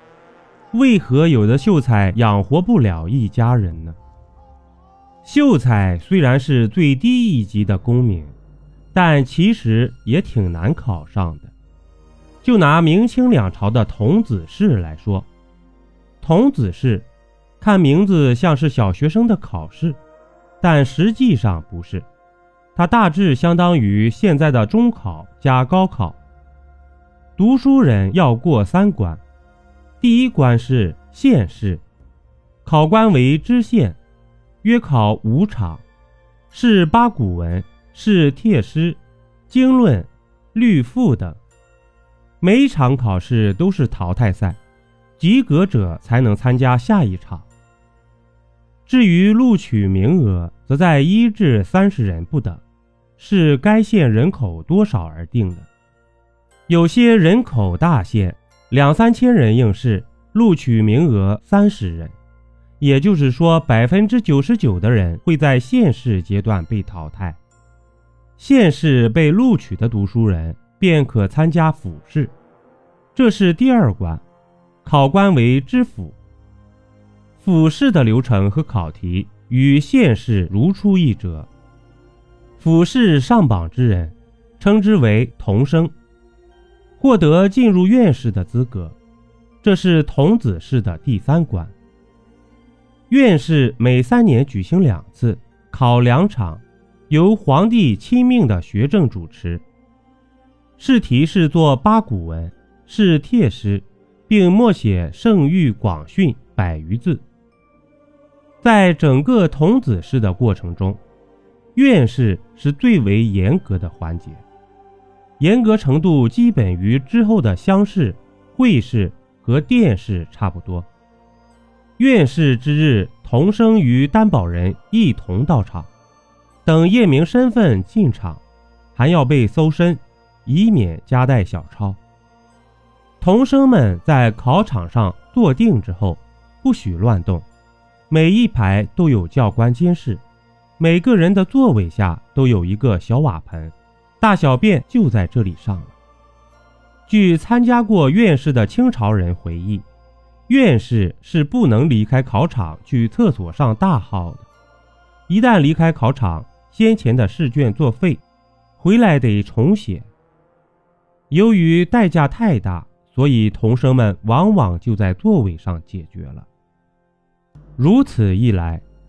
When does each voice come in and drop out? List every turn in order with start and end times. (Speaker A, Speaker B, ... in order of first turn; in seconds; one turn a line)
Speaker A: 0.7-4.0
Speaker A: 5.2-8.3
Speaker A: 8.9-11.5
Speaker A: 12.4-15.3
Speaker A: 16.2-17.1
Speaker A: 17.6-20.0
Speaker A: 20.6-22.1
Speaker A: 22.8-26.2
Speaker A: 27.4-29.2
Speaker A: 30.0-31.8
Speaker A: 32.6-34.0
Speaker A: 34.6-35.8
Speaker A: 36.5-41.4
Speaker A: 42.4-44.6
Speaker A: 45.2-47.5
Speaker A: 48.9-52.6
Speaker A: 53.2-55.7
Speaker A: 56.7-62.2
Speaker A: 62.8-67.4
Speaker A: 68.4-72.3
Speaker A: 73.2-74.2
Speaker A: 74.8-76.2
Speaker A: 77.4-81.5
Speaker A: 82.6-85.9
Speaker A: 87.0-89.0
Speaker A: 89.6-91.7
Speaker A: 93.1-99.6
Speaker A: 100.8-107.2
Speaker A: 108.6-111.0
Speaker A: 111.8-114.4
Speaker A: 115.4-120.9
Speaker A: 122.0-125.9
Speaker A: 126.7-128.4
Speaker A: 128.9-132.0
Speaker A: 133.2-137.5
Speaker A: 138.1-140.2
Speaker A: 140.8-145.9
Speaker A: 147.1-149.9
Speaker A: 150.5-154.5
Speaker A: 155.3-158.2
Speaker A: 158.8-160.1
Speaker A: 161.3-166.5
Speaker A: 167.8-168.8